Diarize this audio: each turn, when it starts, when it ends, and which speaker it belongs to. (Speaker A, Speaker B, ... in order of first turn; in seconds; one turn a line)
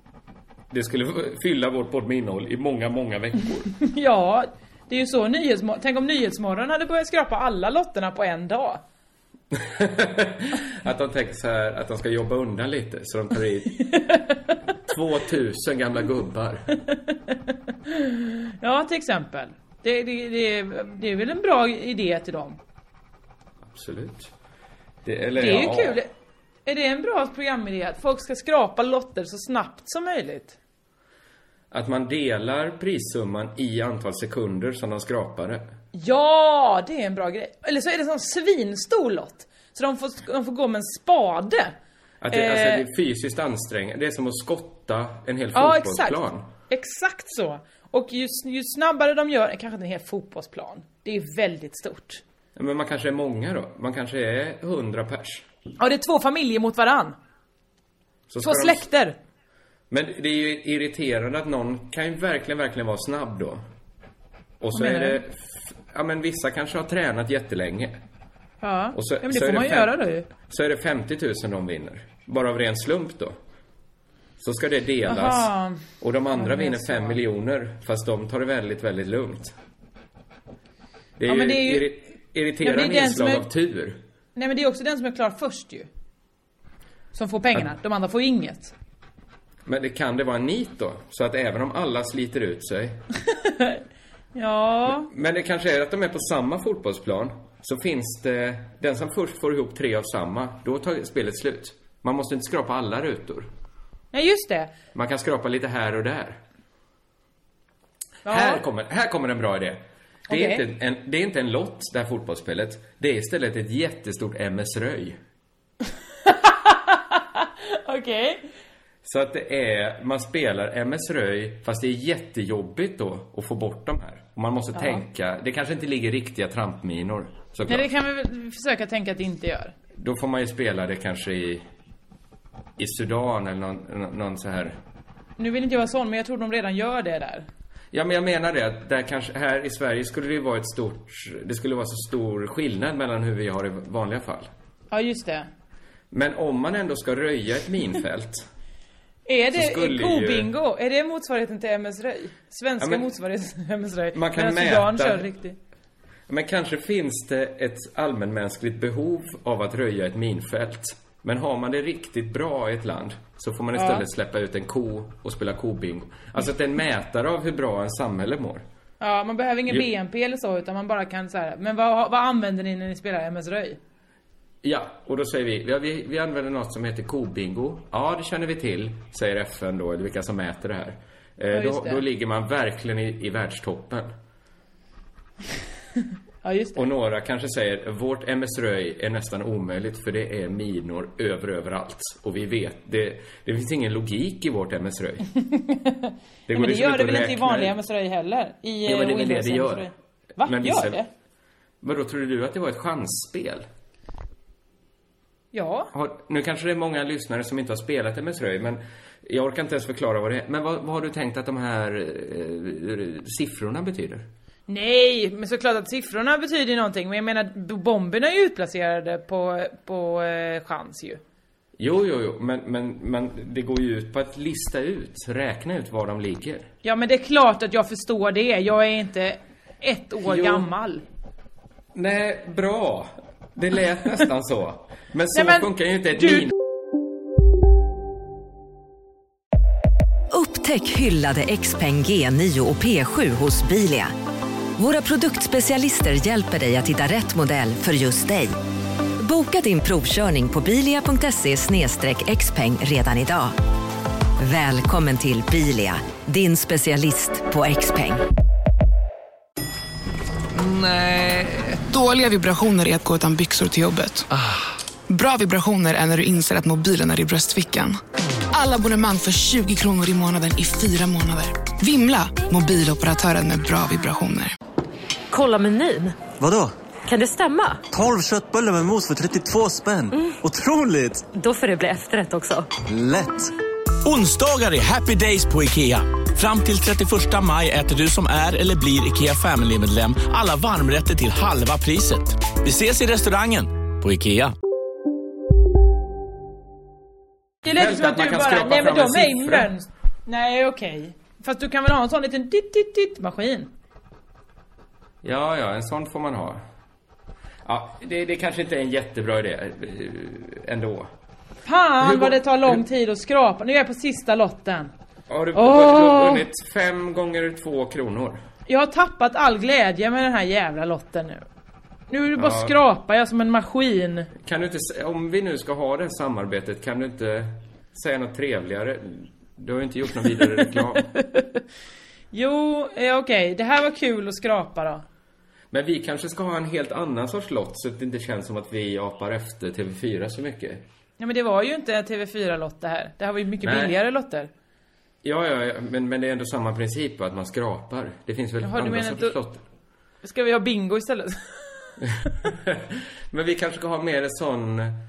Speaker A: 0.7-3.7
Speaker B: 3.8-8.8
Speaker A: 9.5-13.8
Speaker B: 13.8-14.4
Speaker A: 14.9-16.8
Speaker B: 16.9-17.4
Speaker B: 17.9-22.6
Speaker A: 23.7-24.3
Speaker A: 25.0-26.0
Speaker B: 25.4-26.1
Speaker B: 26.7-30.6
Speaker A: 31.7-35.7
Speaker B: 35.9-41.8
Speaker A: 42.2-46.5
Speaker B: 42.3-42.9
Speaker B: 45.5-52.2
Speaker A: 52.6-55.5
Speaker B: 55.8-57.1
Speaker A: 58.3-58.9
Speaker B: 58.4-59.1
Speaker A: 59.9-63.6
Speaker A: 64.6-68.0
Speaker B: 64.7-65.2
Speaker B: 68.6-70.3
Speaker A: 68.9-73.4
Speaker A: 74.4-79.5
Speaker B: 75.1-75.8
Speaker B: 76.3-77.2
Speaker A: 81.2-84.0
Speaker B: 81.3-81.9
Speaker B: 82.6-83.5
Speaker B: 84.4-85.9
Speaker B: 87.1-88.7
Speaker A: 89.7-93.0
Speaker B: 93.5-93.8
Speaker B: 94.3-95.1
Speaker A: 94.9-103.5
Speaker B: 104.1-104.7
Speaker A: 104.9-106.4
Speaker B: 108.2-108.6
Speaker A: 108.2-115.2
Speaker B: 110.3-110.6
Speaker B: 116.3-118.4
Speaker A: 119.0-127.9
Speaker B: 127.7-129.7
Speaker A: 130.0-131.7
Speaker A: 132.8-134.8
Speaker B: 135.4-137.5
Speaker A: 137.9-144.5
Speaker B: 144.9-145.5
Speaker A: 146.1-148.5
Speaker B: 149.3-155.6
Speaker A: 149.5-150.5
Speaker A: 152.8-153.1
Speaker A: 154.1-155.3
Speaker A: 156.3-168.7
Speaker B: 163.8-164.1
Speaker B: 169.0-173.8
Speaker A: 174.6-184.1
Speaker B: 181.5-182.0
Speaker B: 186.4-186.8
Speaker A: 186.8-195.3
Speaker B: 195.5-201.1
Speaker A: 196.5-197.7
Speaker A: 198.8-199.9
Speaker A: 200.4-201.0
Speaker A: 201.8-203.7
Speaker B: 205.5-205.9
Speaker A: 205.9-214.3
Speaker B: 214.7-221.2
Speaker A: 221.8-226.7
Speaker B: 226.8-231.0
Speaker A: 230.2-230.7
Speaker A: 231.9-236.5
Speaker B: 235.3-236.5
Speaker C: 240.3-244.1
Speaker C: 244.8-248.6
Speaker C: 249.2-253.6
Speaker C: 254.4-258.2
Speaker A: 260.6-261.7
Speaker D: 261.8-264.3
Speaker D: 265.1-268.0
Speaker D: 268.5-274.5
Speaker E: 275.3-276.2
Speaker F: 276.4-276.7
Speaker E: 277.1-277.8
Speaker F: 277.9-281.3
Speaker E: 281.3-282.7
Speaker F: 282.9-283.5
Speaker G: 284.1-294.5
Speaker B: 297.6-303.7
Speaker A: 297.7-299.7
Speaker A: 305.2-306.6
Speaker A: 307.6-311.1
Speaker B: 311.7-314.9
Speaker A: 312.0-312.8
Speaker A: 315.3-318.4
Speaker B: 315.6-316.4
Speaker B: 318.7-321.4
Speaker B: 322.1-324.3
Speaker A: 322.3-322.8
Speaker A: 324.4-331.1
Speaker B: 330.5-331.6
Speaker B: 332.3-335.0
Speaker A: 335.7-340.8
Speaker B: 341.2-344.5
Speaker A: 343.6-343.9
Speaker A: 345.2-349.6
Speaker B: 348.6-349.4
Speaker B: 350.2-352.0
Speaker A: 352.5-355.0